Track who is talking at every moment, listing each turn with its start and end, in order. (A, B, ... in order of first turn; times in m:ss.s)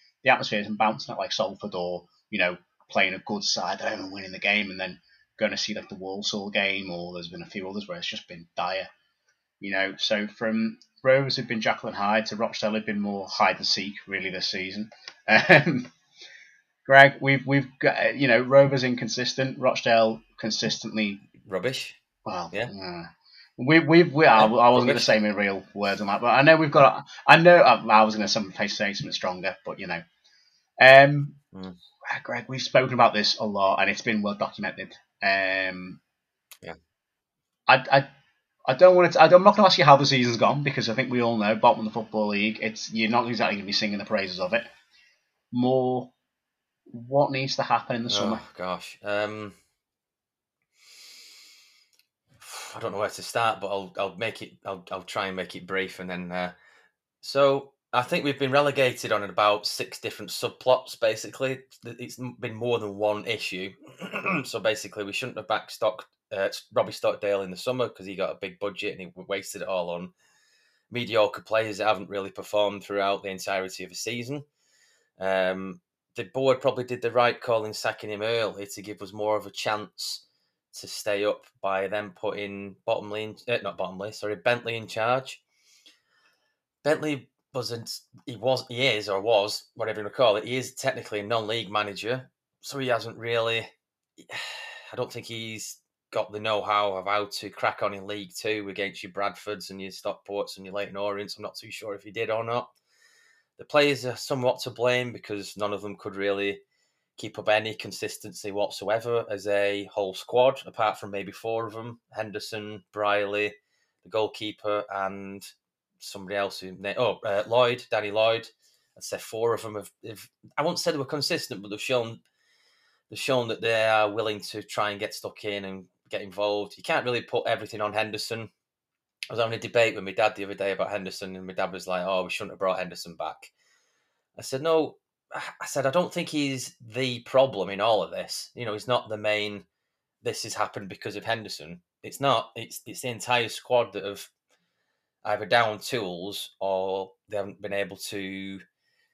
0:00.2-0:08.9 A
0:09.6-0:15.9 A
0:16.9-0:21.2 A
0:21.4-0:22.0 B
0:22.2-0:30.0 A
0:24.3-0:25.1 B
0:30.8-0:31.4 A
0:32.1-0:36.0 A
0:37.7-0:38.1 A
0:38.7-0:44.7 A
0:45.5-0:46.1 A
0:46.9-0:48.4 A
0:48.1-0:49.6 B
0:52.4-0:56.6 B
0:57.2-1:10.1 B
1:10.9-1:14.5 B
1:15.2-1:25.4 B
1:26.8-1:42.7 B
1:43.6-1:46.6 B
1:47.2-1:55.5 B
1:56.0-2:02.2 B
2:03.1-2:08.5 B
2:09.3-2:13.5 B
2:14.4-2:19.7 B
2:20.2-2:24.3 B
2:25.2-2:28.6 B